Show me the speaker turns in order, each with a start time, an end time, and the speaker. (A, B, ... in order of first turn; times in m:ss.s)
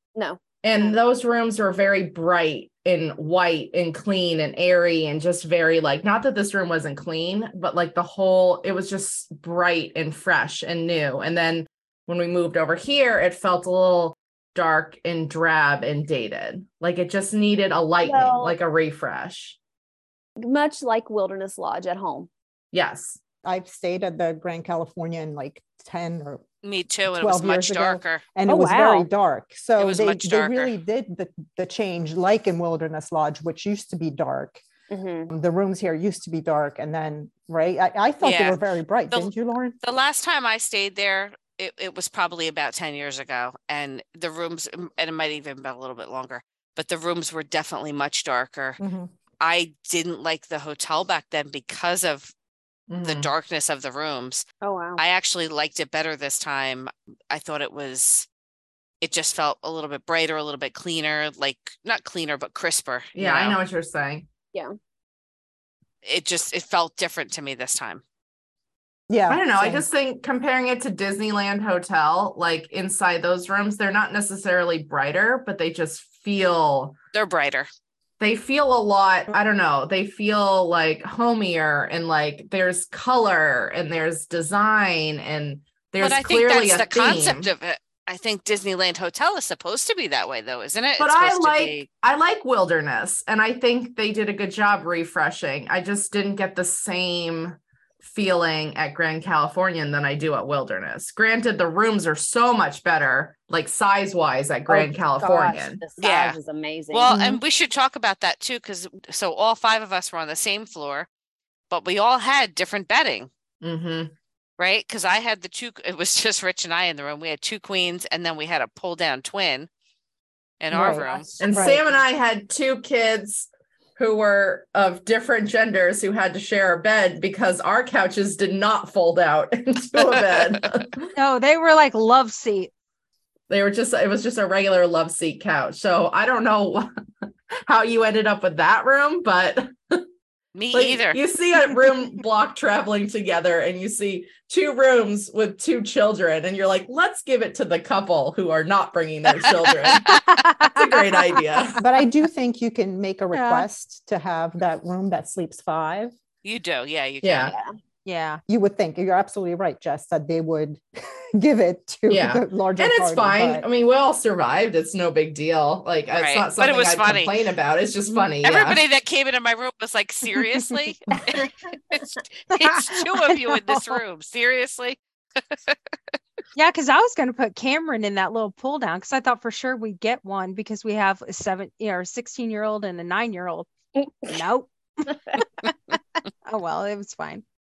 0:00.1-0:01.0 A
0:00.6-0:19.6 B
0:18.0-0:18.6 A
0:20.4-0:22.3 A
0:22.7-0:23.2 B
0:23.4-0:26.4 C
0:26.6-0:28.2 D
0:27.1-0:34.6 C
0:28.5-0:29.1 A
0:29.8-0:30.7 D
0:34.9-0:35.3 A
0:35.3-0:39.8 C
0:38.2-0:48.8 D
0:48.8-0:49.1 C
0:49.4-0:52.3 D
0:52.9-0:53.3 B
0:53.0-0:54.4 D
0:54.6-0:55.0 A
0:55.0-0:58.3 D
0:59.0-1:03.6 D
1:03.2-1:04.2 B
1:06.0-1:08.0 D
1:09.1-1:09.9 C
1:09.3-1:17.0 B
1:17.1-1:17.7 D
1:18.2-1:27.5 B
1:26.0-1:31.9 D
1:31.0-1:45.8 B
1:44.7-1:47.1 A
1:46.0-1:46.4 D
1:46.9-1:51.1 D
1:47.1-1:47.4 C
1:51.7-1:53.3 D
1:53.6-1:54.1 B
1:54.6-1:59.7 D
2:00.6-2:01.4 D
2:00.7-2:01.8 C
2:01.0-2:01.3 E
2:01.4-2:11.1 B
2:10.2-2:10.6 D
2:11.1-2:12.7 E
2:13.5-2:16.9 B
2:17.7-2:20.0 B
2:20.5-2:21.2 D
2:20.7-2:31.8 B
2:29.4-2:30.0 D
2:30.1-2:31.0 E
2:31.8-2:36.1 C
2:33.3-2:33.7 E
2:36.4-2:37.6 D
2:37.2-2:37.5 B
2:38.0-2:38.4 E
2:38.5-2:40.8 C
2:41.3-2:43.6 C
2:42.1-2:48.8 B
2:46.1-2:47.3 D
2:48.4-2:56.1 D
2:52.5-2:54.0 E
2:56.5-3:03.7 E
3:04.2-3:07.4 E